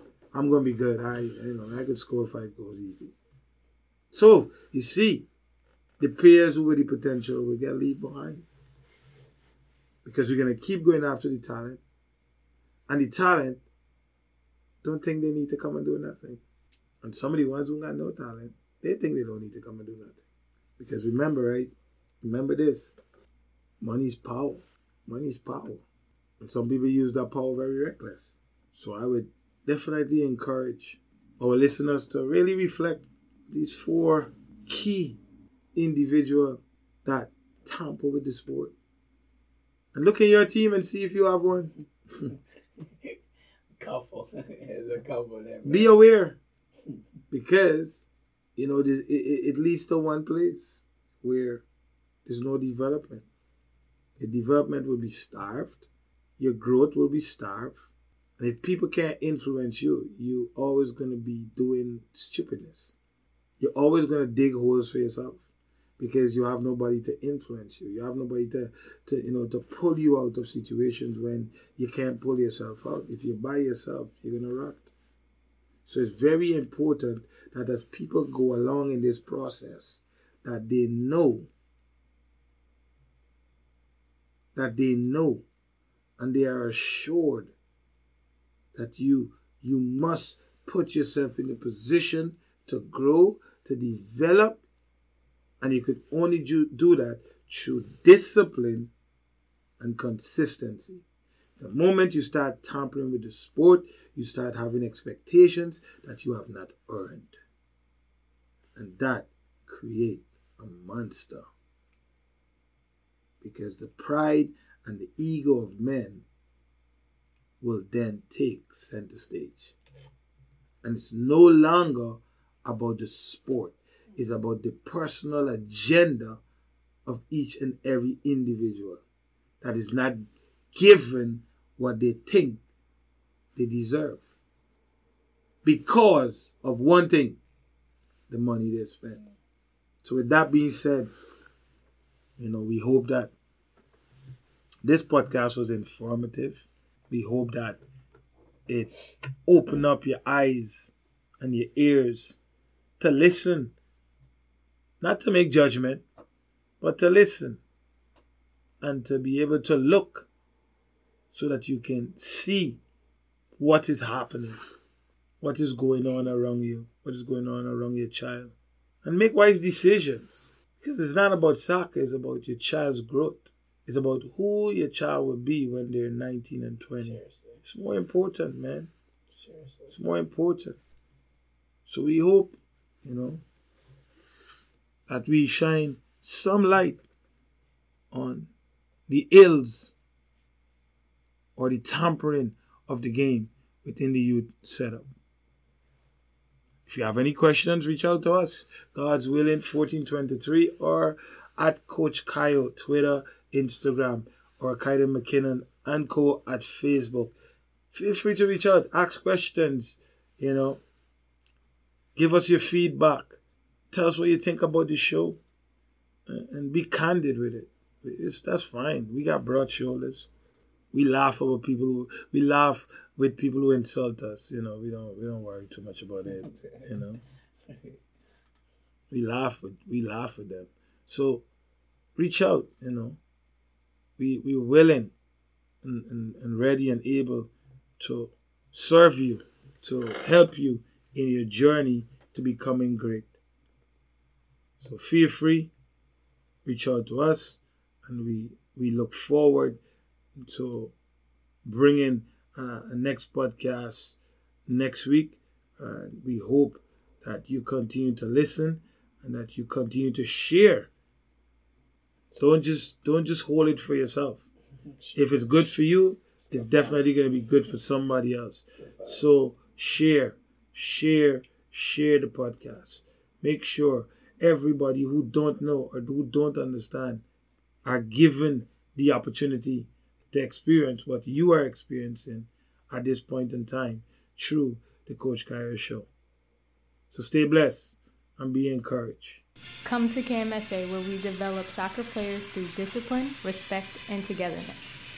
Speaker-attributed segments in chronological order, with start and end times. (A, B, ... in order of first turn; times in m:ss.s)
0:00.3-0:03.1 A
0:04.1-0:05.3 A
0:06.0-0:08.4 A
0:10.0-0:11.8 A
0:12.9-0:13.6 A
0:14.8-0:16.4 A
0:17.0-0:20.2 A
0:20.8-0:22.9 A
0:23.8-0:25.8 A
0:26.4-0:35.2 A
0:35.7-0:38.7 A
0:39.9-0:41.7 A
0:43.8-0:45.9 B
0:45.6-0:46.4 A
0:47.3-0:51.6 A
0:52.2-0:53.2 A
0:54.2-0:55.9 A
0:56.4-0:57.8 A
0:58.4-1:03.0 A
1:03.6-1:05.4 A
1:06.0-1:14.9 A
1:15.8-1:21.5 A
1:24.5-1:25.4 A
1:26.2-1:27.5 A
1:28.7-1:34.6 A
1:35.6-1:38.9 A
1:39.8-1:41.0 A
1:41.6-1:47.3 A
1:48.8-1:51.4 A
1:53.4-1:56.2 A
1:57.6-1:59.7 A
2:00.8-2:06.4 A
2:07.0-2:09.0 A
2:09.6-2:12.6 A
2:13.6-2:14.2 A
2:15.6-2:17.4 A
2:18.3-2:19.2 A
2:20.0-2:21.1 A
2:22.4-2:23.3 A
2:24.8-2:27.8 A
2:28.7-2:28.9 A
2:29.5-2:32.4 A
2:33.0-2:33.7 A
2:35.0-2:36.0 A
2:36.8-2:37.6 A
2:38.8-2:40.3 A
2:41.3-2:42.8 A
2:43.6-2:44.6 A
2:45.4-2:58.9 A
2:57.0-2:57.6 B
2:59.3-2:59.9 B
2:59.9-3:00.8 A
3:01.8-3:03.4 A
3:05.1-3:07.0 A
3:08.1-3:08.5 A
3:09.1-3:09.9 A
3:11.6-3:15.1 A
3:16.8-3:27.3 A
3:27.9-3:30.8 A
3:32.2-3:33.4 A
3:33.9-3:35.4 A
3:36.3-3:40.3 A
3:40.9-3:47.2 A
3:46.3-3:47.0 B
3:49.1-3:51.4 A
3:52.2-3:53.2 A
3:54.2-3:55.1 A
3:55.8-4:03.3 A
4:04.8-4:05.7 A
4:06.6-4:09.8 A
4:10.4-4:10.9 A
4:11.6-4:20.9 A
4:22.4-4:24.4 A
4:24.9-4:25.2 B
4:25.1-4:37.2 A
4:26.4-4:27.3 B
4:28.8-4:29.4 B
4:37.8-4:46.1 A
4:47.1-4:49.4 A
4:49.8-4:54.8 C